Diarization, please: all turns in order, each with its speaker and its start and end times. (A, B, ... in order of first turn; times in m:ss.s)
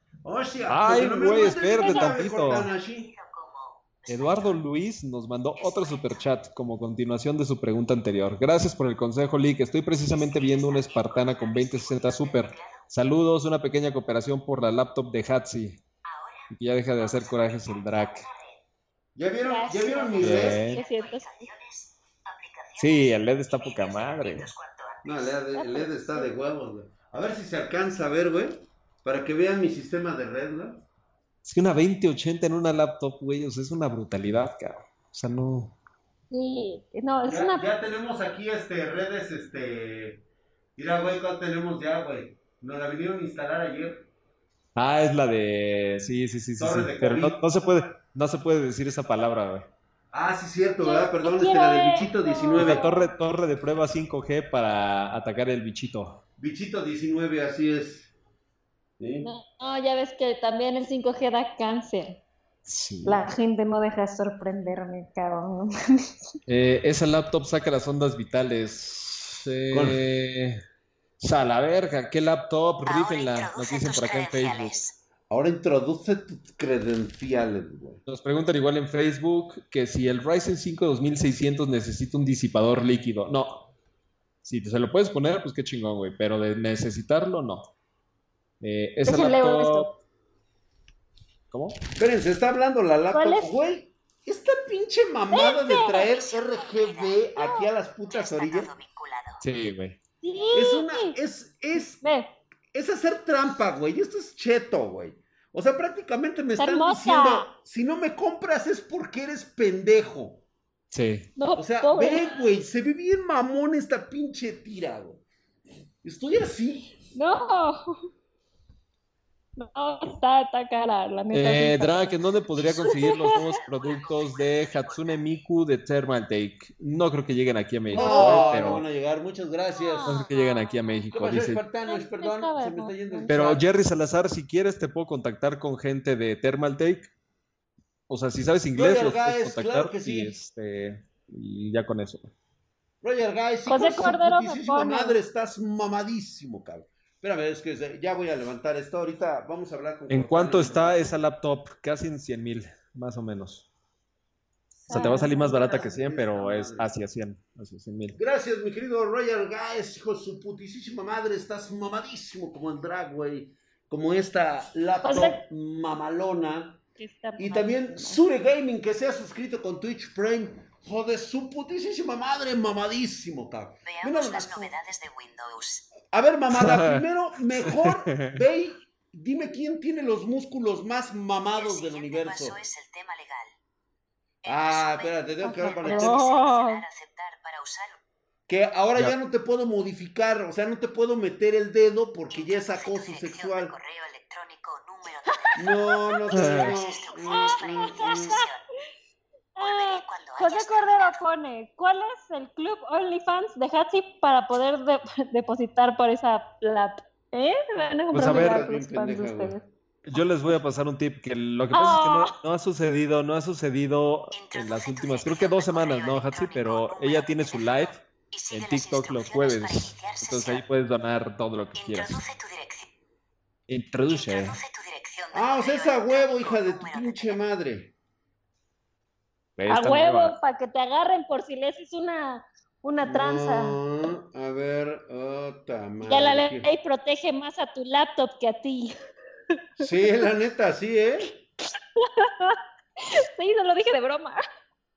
0:00.2-0:03.1 A
0:00.7-0:02.7 B
0:01.8-0:02.1 C
0:02.5-0:04.6 D
0:04.1-0:15.8 B
0:05.6-0:06.3 D
0:10.1-0:12.8 D
0:16.1-0:18.6 D
0:16.5-0:18.3 B
0:19.2-0:20.6 A
0:19.4-0:21.5 C
0:20.2-0:25.4 D
0:20.2-0:20.8 B
0:22.8-0:24.5 B
0:25.0-0:30.8 A
0:25.5-0:26.4 C
0:31.4-0:35.8 B
0:36.3-0:37.7 C
0:37.3-0:40.2 A
0:40.8-0:44.1 A
0:44.8-0:49.7 B
0:46.6-0:47.9 A
0:50.1-0:52.8 A
0:50.8-0:53.1 C
0:52.6-0:56.2 B
0:56.4-0:58.1 A
0:59.0-0:59.3 A
0:59.2-1:02.2 C
1:02.7-1:03.2 B
1:03.0-1:06.3 C
1:06.5-1:10.6 B
1:09.7-1:10.0 A
1:11.2-1:14.8 B
1:12.9-1:15.0 D
1:15.3-1:18.0 A
1:18.1-1:23.7 B
1:24.4-1:27.7 B
1:28.6-1:29.9 B
1:29.1-1:30.0 C
1:31.5-1:31.8 B
1:32.0-1:38.7 A
1:33.1-1:33.5 C
1:35.3-1:36.1 C
1:36.2-1:37.2 D
1:38.1-1:39.4 D
1:39.4-1:40.0 B
1:40.2-1:41.2 C
1:40.5-1:42.0 A
1:42.0-1:42.3 C
1:42.7-1:50.4 A
1:46.6-1:47.5 C
1:50.9-1:51.3 B
1:51.4-1:52.3 C
1:51.6-1:55.2 A
1:56.0-1:57.0 A
1:57.2-1:58.0 C
1:59.6-2:02.2 C
2:01.3-2:08.8 B
2:02.7-2:03.4 C
2:02.8-2:05.4 D
2:07.9-2:08.8 C
2:07.9-2:10.2 A
2:09.8-2:11.0 C
2:10.1-2:11.6 B
2:11.1-2:13.6 A
2:11.8-2:13.4 C
2:13.3-2:17.1 B
2:18.1-2:22.3 B
2:18.8-2:20.4 A
2:23.0-2:31.1 A
2:23.7-2:25.2 C
2:30.1-2:33.7 B
2:34.8-2:36.9 A
2:34.9-2:35.5 C
2:34.9-2:38.2 B
2:38.2-2:46.8 A
2:45.0-2:45.4 C
2:47.0-2:48.2 C
2:47.4-2:54.7 A
2:53.8-2:55.9 D
2:56.1-3:02.6 A
2:56.5-2:57.0 B
2:57.6-2:58.4 B
3:01.6-3:03.5 D
3:04.4-3:08.0 D
3:04.4-3:06.2 A
3:05.4-3:06.8 C
3:08.5-3:13.7 A
3:12.3-3:15.6 D
3:15.3-3:16.0 C
3:15.6-3:18.4 A
3:16.3-3:18.6 D
3:16.3-3:16.8 B
3:17.3-3:18.5 C
3:19.6-3:29.6 C
3:19.6-3:21.2 D
3:28.1-3:28.6 B
3:28.2-3:29.6 A
3:30.0-3:42.2 B
3:31.7-3:32.4 C
3:34.3-3:40.7 D
3:41.8-3:42.9 D
3:43.7-3:44.6 B
3:44.1-3:47.4 D
3:45.3-3:47.9 A
3:49.6-3:50.4 B
3:49.7-3:53.8 C
3:53.0-3:56.7 A
3:56.0-3:59.0 C
3:59.8-4:01.4 A
3:59.8-4:00.2 C
4:02.0-4:04.4 C